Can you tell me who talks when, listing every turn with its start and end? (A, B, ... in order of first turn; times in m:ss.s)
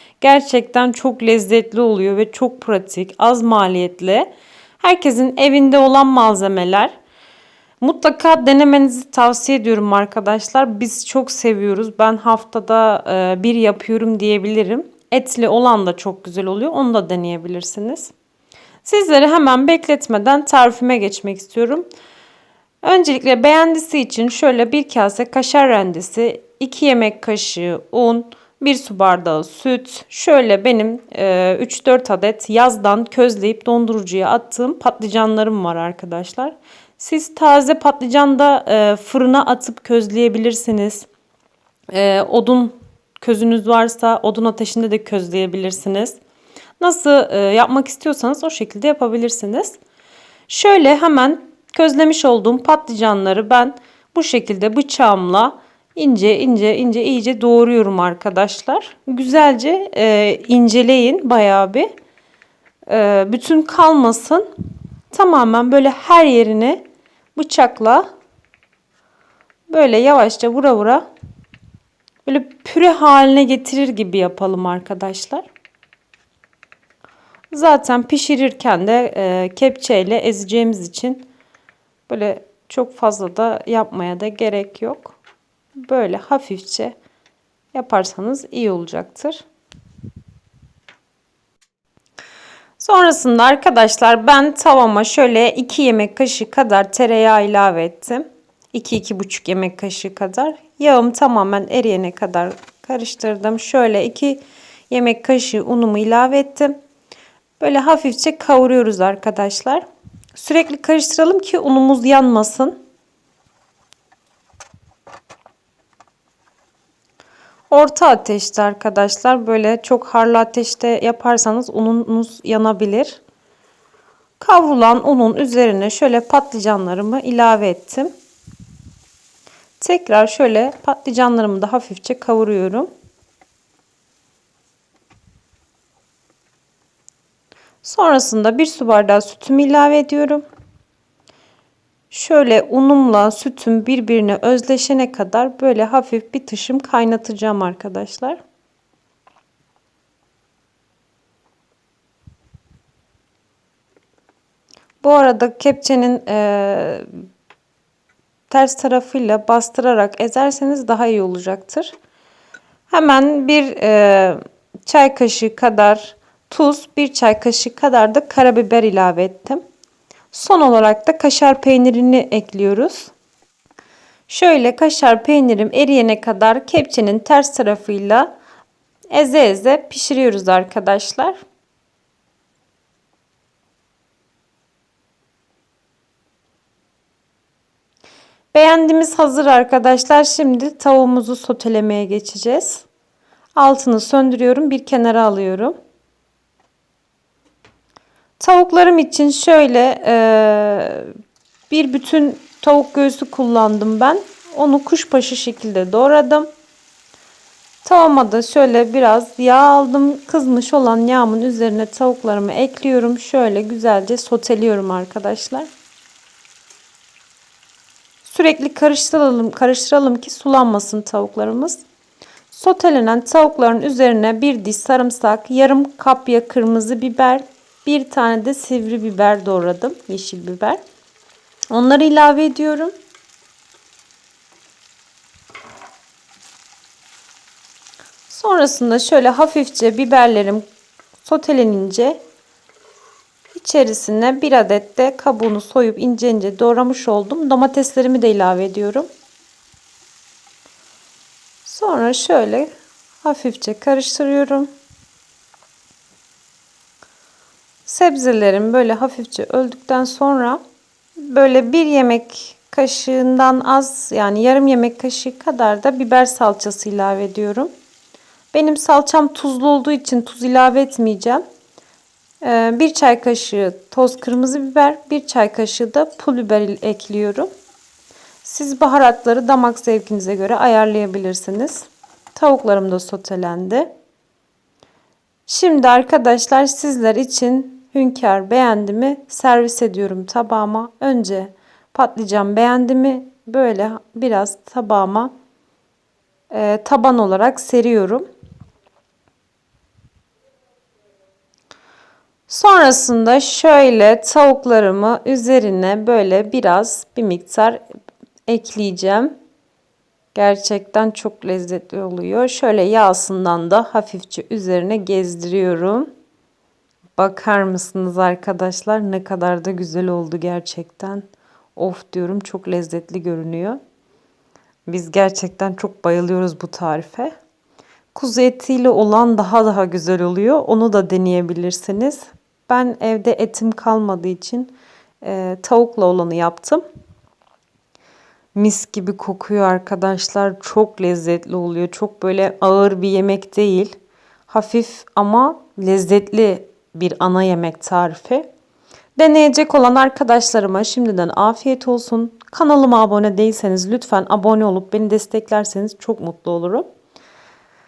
0:00.2-0:06.9 A
0:07.8-0:18.1 A
0:18.8-0:21.9 A
0:22.8-0:41.1 A
0:41.9-0:46.2 A
0:46.8-0:49.8 A
0:50.5-1:01.9 A
1:02.9-1:04.5 A
1:05.1-1:06.8 A
1:07.4-1:08.0 A
1:09.7-1:11.1 A
1:12.2-1:15.5 A
1:17.5-1:21.3 A
1:22.1-1:25.2 A
1:25.8-1:26.9 A
1:27.7-1:29.4 A
1:32.8-1:46.8 A
1:47.6-1:52.8 A
1:57.7-2:03.2 A
2:04.4-2:08.1 A
2:09.8-2:12.9 A
2:17.8-2:20.4 A
2:22.1-2:28.4 A
2:35.0-2:37.1 A
2:38.5-2:41.9 A
2:42.9-2:49.6 A
2:50.3-2:53.1 A
2:54.3-2:58.3 A
2:59.1-3:01.4 A
3:08.5-3:12.8 A
3:13.5-3:15.8 A
3:18.4-3:21.1 A
3:21.7-3:26.5 A
3:27.8-3:35.7 A
3:38.2-3:41.8 A
3:42.5-3:50.8 A
3:51.7-3:52.9 A
3:58.3-4:00.6 A
4:01.2-4:02.2 A
4:03.5-4:09.1 A
4:11.6-4:14.7 A
4:17.8-4:20.6 A
4:21.2-4:27.7 A
4:28.5-4:31.4 A
4:32.4-4:37.5 A
4:38.4-4:43.9 A
4:45.5-4:55.3 A
4:56.5-4:58.2 A
5:02.5-5:07.8 A
5:08.5-5:09.3 A
5:10.3-5:16.1 A
5:17.2-5:21.2 A
5:21.8-5:23.8 A
5:24.9-5:27.3 A
5:28.1-5:36.8 A
5:38.5-5:43.9 A
5:44.5-5:48.5 A
5:49.2-5:56.8 A